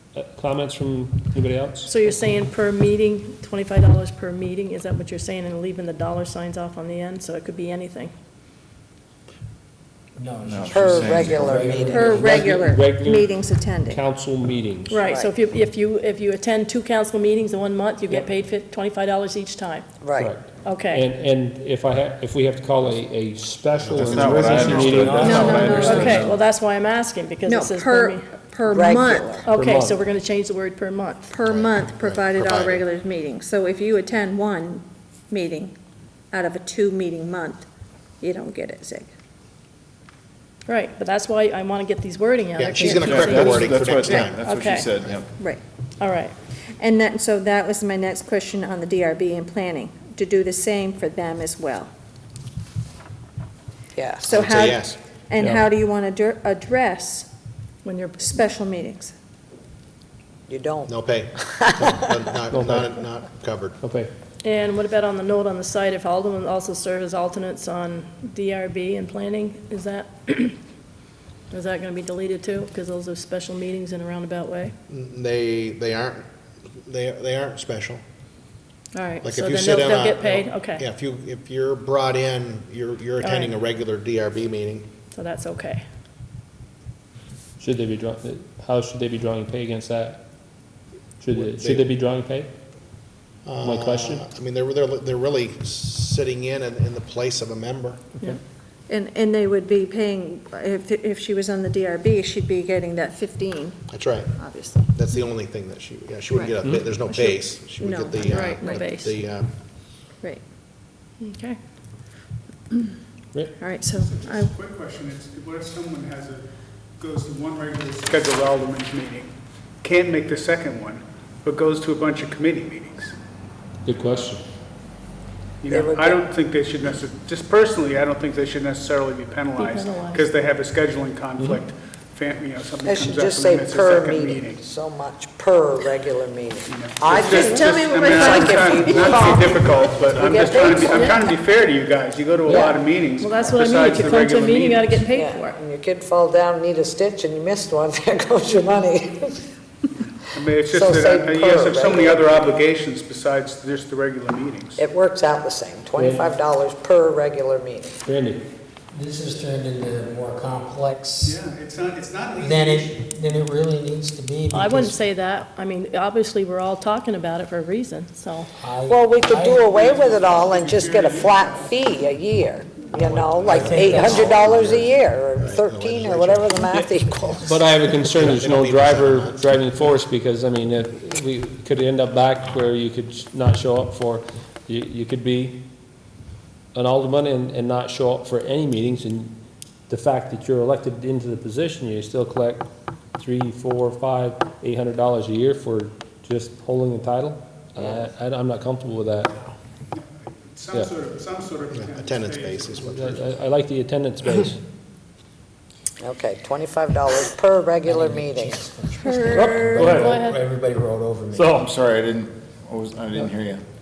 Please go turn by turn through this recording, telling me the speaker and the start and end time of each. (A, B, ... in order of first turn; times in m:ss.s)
0:00.1-0:02.5 A
0:01.9-0:08.1 B
0:10.2-0:12.5 C
0:10.5-0:12.2 D
0:10.7-0:12.2 E
0:11.9-0:14.0 F
0:12.2-0:15.1 A
0:14.9-0:19.9 B
0:15.0-0:15.3 E
0:20.0-0:20.4 E
0:20.2-0:26.1 A
0:20.6-0:21.1 B
0:23.8-0:24.8 G
0:24.0-0:26.4 D
0:24.7-0:25.6 C
0:25.2-0:26.3 F
0:25.2-0:28.3 B
0:27.5-0:29.5 F
0:28.7-0:29.4 E
0:29.4-0:31.3 B
0:29.6-0:30.0 A
0:31.3-0:35.8 F
0:31.4-0:32.8 G
0:36.3-0:37.7 F
0:38.2-0:39.1 F
0:40.7-0:44.9 B
0:42.6-0:44.4 G
0:42.8-0:43.2 F
0:42.9-0:45.3 D
0:45.4-0:45.6 F
0:46.0-0:46.4 B
0:46.8-0:51.9 F
0:54.0-0:54.4 E
0:54.2-0:57.3 F
0:54.3-0:55.0 G
0:55.4-0:55.7 A
0:57.8-0:58.4 B
0:58.2-0:59.1 F
1:00.5-1:02.0 E
1:00.9-1:03.8 G
1:02.5-1:02.9 A
1:03.8-1:04.1 A
1:04.4-1:10.6 B
1:11.5-1:14.7 B
1:14.9-1:16.2 G
1:16.8-1:18.0 G
1:18.9-1:20.8 B
1:19.2-1:24.9 G
1:23.2-1:23.6 B
1:25.1-1:25.8 B
1:27.6-1:30.3 A
1:31.2-1:32.5 A
1:31.3-1:31.9 G
1:33.5-1:38.0 G
1:33.6-1:34.3 A
1:38.9-1:44.9 F
1:43.9-1:49.5 G
1:46.3-1:48.9 F
1:48.2-1:49.2 B
1:51.2-1:51.6 B
1:53.6-1:54.5 F
1:53.8-1:56.4 H
1:57.0-2:03.2 H
2:03.8-2:04.4 A
2:05.6-2:14.6 H
2:05.7-2:06.3 E
2:09.5-2:10.3 B
2:12.8-2:21.2 E
2:16.7-2:25.1 H
2:17.2-2:17.8 B
2:17.6-2:19.5 F
2:20.8-2:21.2 B
2:22.5-2:22.8 E
2:22.5-2:25.6 B
2:25.1-2:29.4 E
2:30.4-2:34.8 H
2:30.7-2:32.5 E
2:34.8-2:38.0 E
2:36.0-2:36.3 A
2:38.0-2:38.5 A
2:38.9-2:41.4 C
2:41.2-2:43.0 H
2:42.4-2:45.0 C
2:44.5-2:48.5 B
2:48.5-2:49.7 C
2:48.9-2:57.5 E
2:49.4-2:52.0 H
2:52.8-2:54.0 H
2:53.5-2:54.8 C
2:53.9-2:56.6 G
2:56.7-3:05.7 A
2:58.1-2:59.5 G
3:06.7-3:19.4 A
3:19.9-3:22.9 H
3:21.7-3:23.3 G
3:22.9-3:24.6 A
3:26.0-3:28.6 E
3:27.8-3:31.7 C
3:29.0-3:29.5 F
3:29.3-3:30.2 A
3:29.9-3:30.4 B
3:31.3-3:31.7 A
3:31.6-3:33.6 D